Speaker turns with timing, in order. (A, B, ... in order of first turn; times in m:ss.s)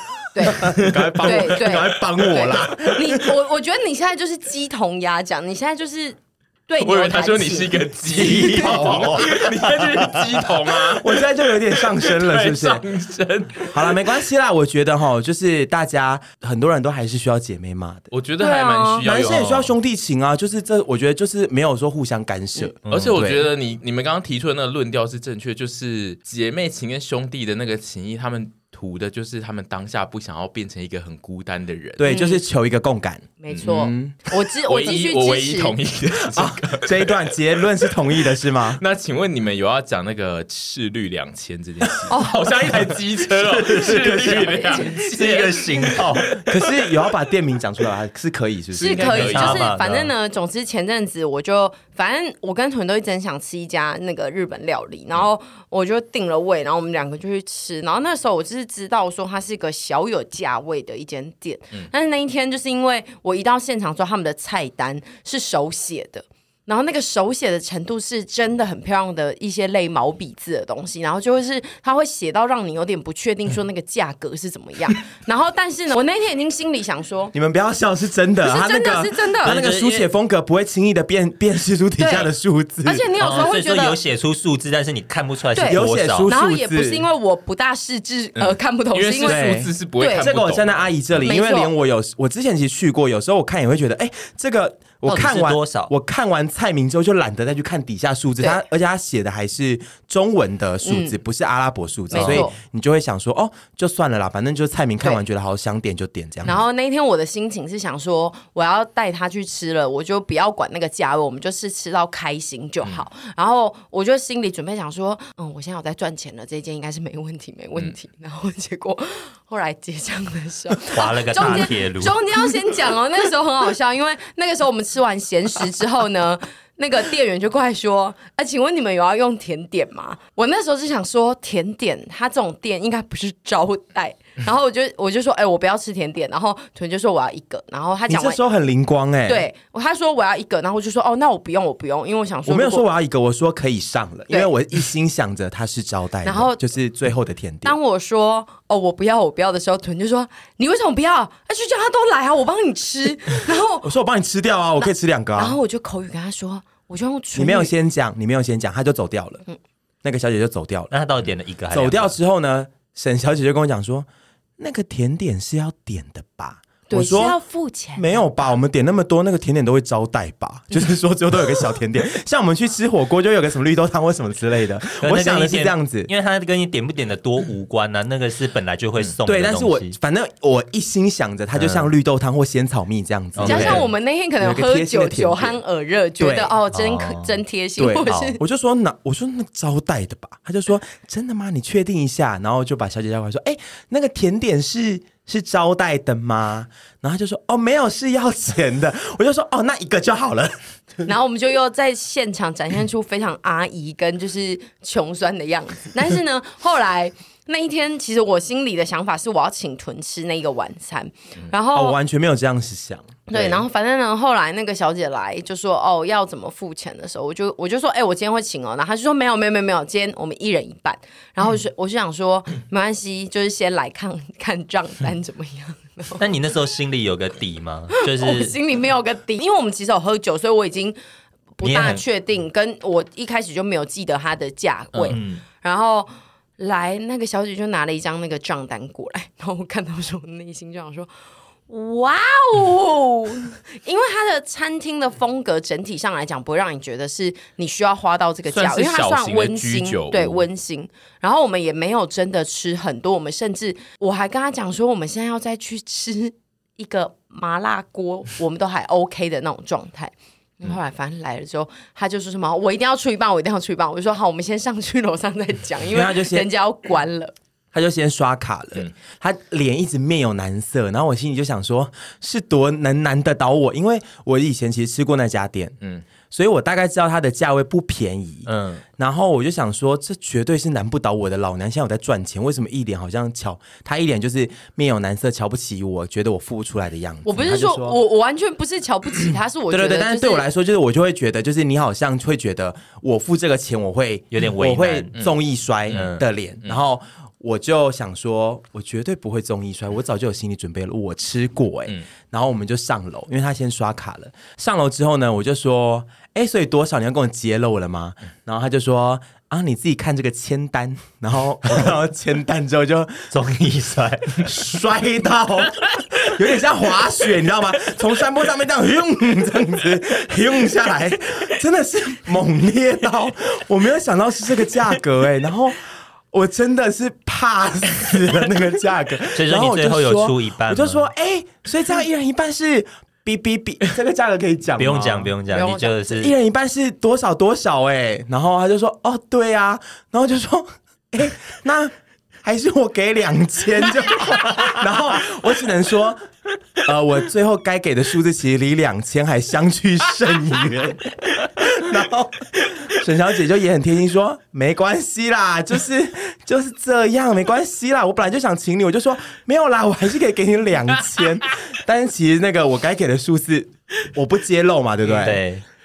0:00.3-0:09.0 A
0:00.4-0:03.4 B
0:00.8-0:01.8 C
0:06.8-0:14.1 C
0:08.1-0:09.4 B
0:08.2-0:10.0 D
0:11.0-0:12.8 B
0:13.7-0:18.1 B
0:18.1-0:19.5 C
0:18.4-0:19.1 A
0:19.0-0:23.5 B
0:19.2-0:19.7 D
0:22.9-0:23.2 D
0:22.9-0:32.1 C
0:32.0-0:34.2 B
0:32.1-0:32.4 A
0:33.4-0:35.8 A
0:34.7-0:37.2 C
0:36.3-0:38.8 B
0:38.8-0:46.5 C
0:42.1-0:42.5 A
0:43.3-0:46.4 D
0:43.8-0:44.6 B
0:44.5-0:45.0 A
0:46.3-0:49.5 B
0:48.8-1:17.3 A
0:48.8-0:49.7 C
0:49.1-0:50.1 D
1:17.3-1:23.1 B
1:18.4-1:19.6 A
1:19.4-1:20.1 D
1:22.0-1:22.3 A
1:22.8-1:24.0 A
1:23.2-1:26.3 D
1:25.5-1:30.3 A
1:25.7-1:27.0 B
1:28.4-1:31.2 C
1:29.2-1:46.6 B
1:31.2-1:31.7 A
1:35.0-1:35.9 D
1:40.8-1:41.2 A
1:42.1-1:42.6 A
1:42.1-1:42.4 D
1:46.4-2:18.4 A
2:00.9-2:02.2 D
2:18.1-2:19.5 B
2:19.3-2:22.8 A
2:22.5-2:27.8 B
2:26.2-2:26.6 A
2:27.6-2:33.9 A
2:33.8-2:35.6 B
2:35.4-2:37.7 A
2:37.3-2:39.4 B
2:40.0-2:40.9 B
2:40.9-2:42.1 D
2:41.7-2:44.1 B
2:44.6-2:47.4 B
2:46.9-2:48.3 A
2:47.9-2:56.1 B
2:55.0-2:59.9 D
2:59.2-3:03.9 B
3:01.6-3:01.9 D
3:03.4-3:03.9 D
3:03.4-3:08.4 A
3:04.4-3:05.6 B
3:06.2-3:06.6 B
3:06.7-3:07.4 D
3:07.8-3:21.0 B
3:08.1-3:08.3 D
3:21.1-3:32.0 A
3:31.7-3:33.6 B
3:33.3-3:46.2 A
3:46.2-3:48.6 D
3:48.1-3:51.0 A
3:51.6-4:01.1 A
3:51.6-3:52.0 D
3:54.9-3:55.2 C
3:55.1-3:55.4 D
4:01.7-4:27.3 A
4:08.5-4:10.5 C
4:25.9-4:26.5 B
4:27.7-4:35.8 B
4:35.8-4:36.1 C
4:36.3-4:48.0 B
4:38.4-4:38.8 D
4:47.2-4:50.4 A
4:49.7-5:13.3 B
4:54.3-4:55.1 D
4:55.1-4:56.1 C
4:55.9-4:56.2 D
5:13.3-5:14.6 D
5:14.4-5:35.4 B
5:29.4-5:31.0 D
5:34.8-5:36.3 D
5:35.5-5:36.3 A
5:36.1-5:41.9 B
5:42.4-5:46.2 B
5:46.8-6:05.4 B
6:05.2-6:05.6 D